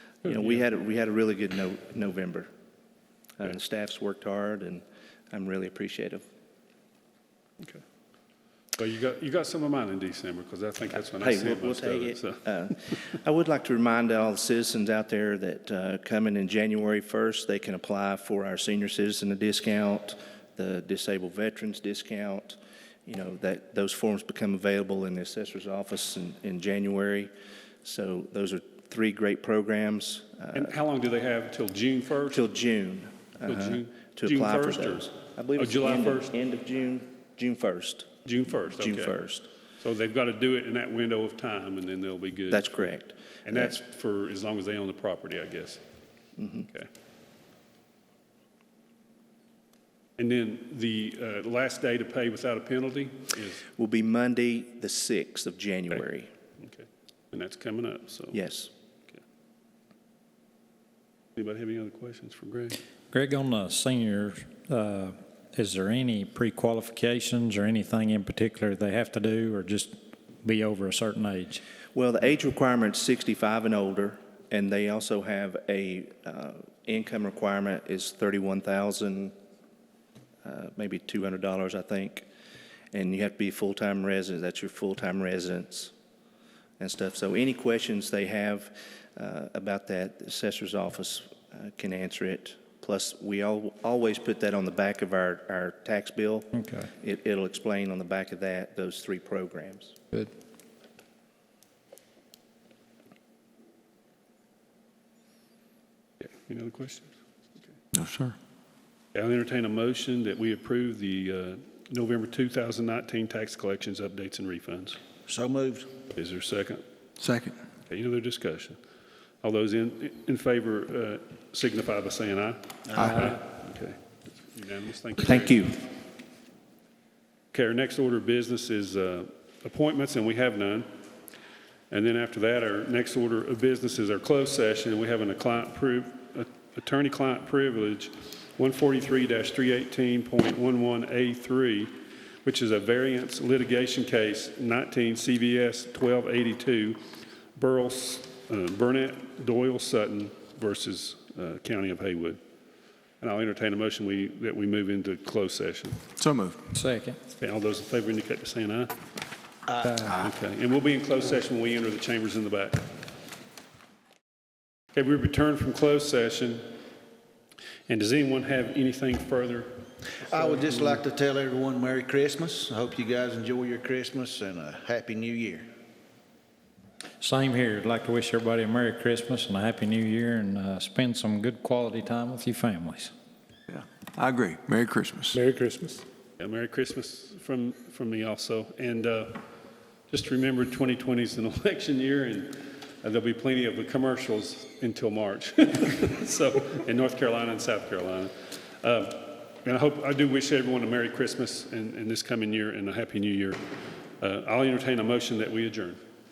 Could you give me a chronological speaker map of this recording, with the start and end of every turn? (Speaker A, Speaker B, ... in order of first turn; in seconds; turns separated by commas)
Speaker A: 0.2-2.5, Speaker B: 0.3-0.6, Speaker A: 3.4-6.2, Speaker B: 8.8-13.0, Speaker A: 11.1-27.3, Speaker A: 27.8-30.7, Speaker B: 30.5-32.4, Speaker A: 32.3-38.1, Speaker B: 33.5-36.3, Speaker B: 38.2-39.1, Speaker A: 38.7-39.5, Speaker B: 39.8-42.7, Speaker A: 42.5-43.7, Speaker B: 43.5-45.8, Speaker A: 46.4-46.7, Speaker B: 50.2-53.6, Speaker A: 53.8-56.3, Speaker B: 56.6-58.4, Speaker A: 58.3-58.7, Speaker B: 61.4-62.8, Speaker C: 63.1-71.6, Speaker A: 71.9-79.3, Speaker A: 80.5-82.3, Speaker A: 82.9-85.9, Speaker A: 86.8-100.0, Speaker B: 106.4-107.1, Speaker D: 107.9-108.4, Speaker B: 109.2-115.0, Speaker E: 115.3-115.9, Speaker B: 116.2-116.8, Speaker B: 117.9-118.8, Speaker B: 119.4-125.7, Speaker E: 122.9-123.2, Speaker A: 125.2-125.8, Speaker B: 127.5-130.9, Speaker B: 131.9-147.0, Speaker B: 147.6-152.4, Speaker B: 153.2-156.0, Speaker D: 156.2-156.6, Speaker C: 156.7-157.2, Speaker B: 157.4-158.9, Speaker E: 159.7-160.3, Speaker C: 159.8-160.1, Speaker B: 160.2-162.9, Speaker B: 164.9-166.7, Speaker B: 167.9-171.0, Speaker E: 170.2-175.7, Speaker C: 177.2-183.1, Speaker D: 183.7-185.4, Speaker B: 186.4-189.4, Speaker B: 190.1-203.6, Speaker B: 204.2-206.0